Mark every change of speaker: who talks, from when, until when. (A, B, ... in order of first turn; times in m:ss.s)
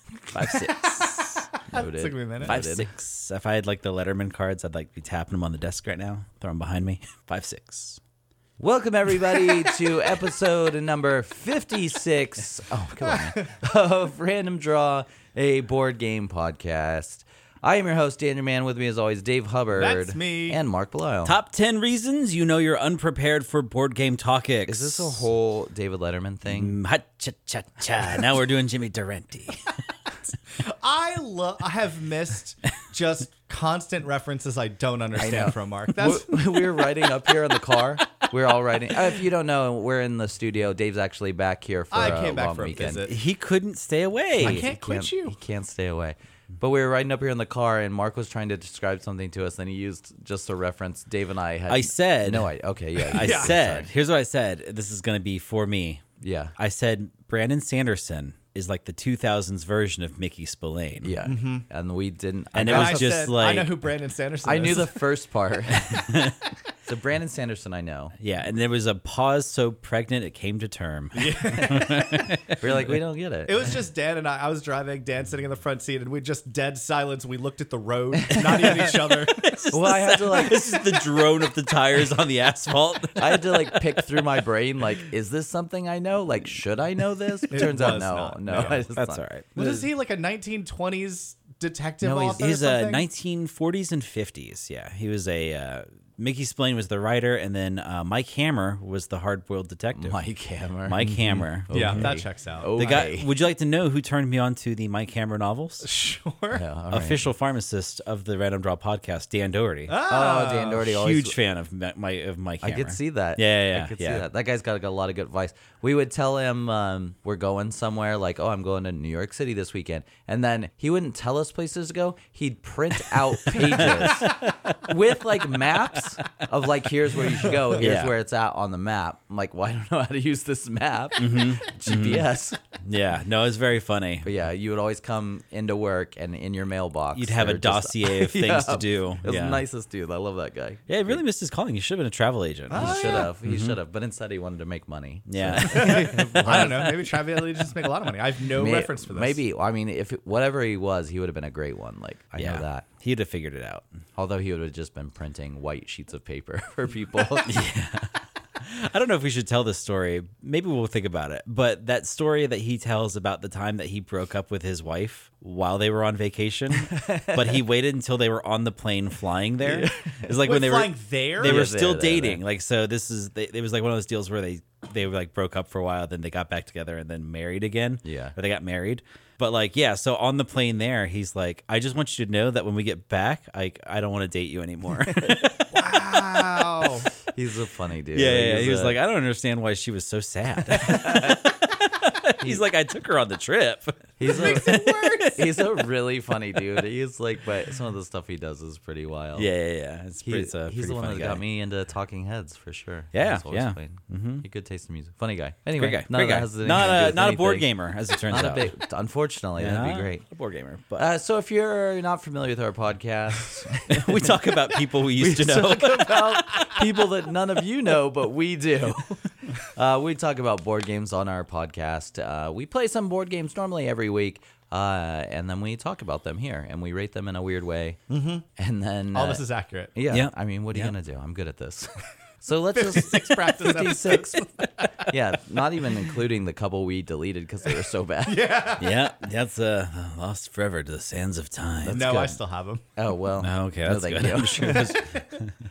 0:00.3-0:01.5 A
0:00.4-0:02.9 B
0:01.7-0:02.6 C
0:02.4-0:08.0 A
0:08.6-0:21.4 B
0:19.8-0:20.6 C
0:21.2-0:25.3 A
0:24.7-0:26.8 B
0:26.5-0:29.6 A
0:30.6-0:36.9 C
0:35.2-0:43.0 B
0:41.9-0:43.2 C
0:43.1-0:44.7 A
0:44.4-0:45.4 C
0:44.4-0:53.9 B
0:51.7-0:52.5 A
0:53.1-0:53.5 C
0:53.1-0:56.0 A
0:56.2-0:56.5 B
0:56.6-1:01.1 A
1:01.0-1:03.2 B
1:01.2-1:01.7 C
1:02.5-1:03.8 A
1:02.6-1:05.0 C
1:04.4-1:06.1 B
1:05.8-1:06.4 A
1:06.9-1:08.2 B
1:08.2-1:12.8 A
1:11.2-1:12.2 C
1:11.5-1:13.8 B
1:13.5-1:19.8 C
1:18.3-1:24.2 A
1:19.7-1:20.7 B
1:23.2-1:29.8 B
1:27.5-1:28.8 C
1:29.0-1:29.6 A
1:29.6-1:33.1 C
1:32.0-1:32.4 B
1:32.4-1:40.2 A
1:40.0-1:43.3 B
1:40.8-1:42.2 A
1:41.7-1:43.0 C
1:42.8-1:45.9 A
1:45.8-1:46.6 C
1:46.5-1:47.3 B
1:46.9-1:50.0 A
1:49.9-1:50.8 C
1:50.1-1:51.4 B
1:50.7-1:54.2 A
1:52.6-2:12.6 B
2:03.1-2:04.9 A
2:07.7-2:08.1 A
2:11.2-2:12.3 A
2:12.8-2:14.3 A
2:14.2-2:21.2 B
2:17.2-2:19.6 A
2:20.9-2:23.8 A
2:22.7-2:23.3 C
2:22.7-2:26.9 B
2:25.3-2:27.1 A
2:25.6-2:29.4 C
2:28.5-2:32.9 B
2:32.4-2:33.9 A
2:34.2-2:37.6 B
2:37.4-3:06.9 A
2:49.6-2:50.3 B
2:50.4-2:51.7 C
2:51.4-2:52.4 B
2:58.0-2:58.4 B
3:05.7-3:07.1 C
3:07.3-3:09.0 B
3:08.1-3:15.6 A
3:10.8-3:11.4 B
3:14.2-3:19.5 B
3:14.2-3:15.5 C
3:19.4-3:21.4 A
3:20.2-3:27.7 B
3:23.1-3:24.4 A
3:25.8-3:28.7 A
3:28.3-3:30.2 B
3:29.6-3:31.1 A
3:31.0-3:34.5 B
3:33.9-3:36.8 A
3:35.1-3:39.2 B
3:39.7-3:48.0 B
3:48.1-3:48.5 C
3:48.6-3:49.4 B
3:49.1-3:49.9 C
3:49.9-3:54.5 B
3:50.1-3:50.9 A
3:52.8-3:55.1 C
3:55.0-3:58.4 B
3:58.2-3:59.1 C
3:58.8-4:02.2 A
4:01.8-4:02.4 B
4:01.9-4:02.8 C
4:03.0-4:04.9 B
4:03.4-4:05.5 A
4:04.6-4:05.2 C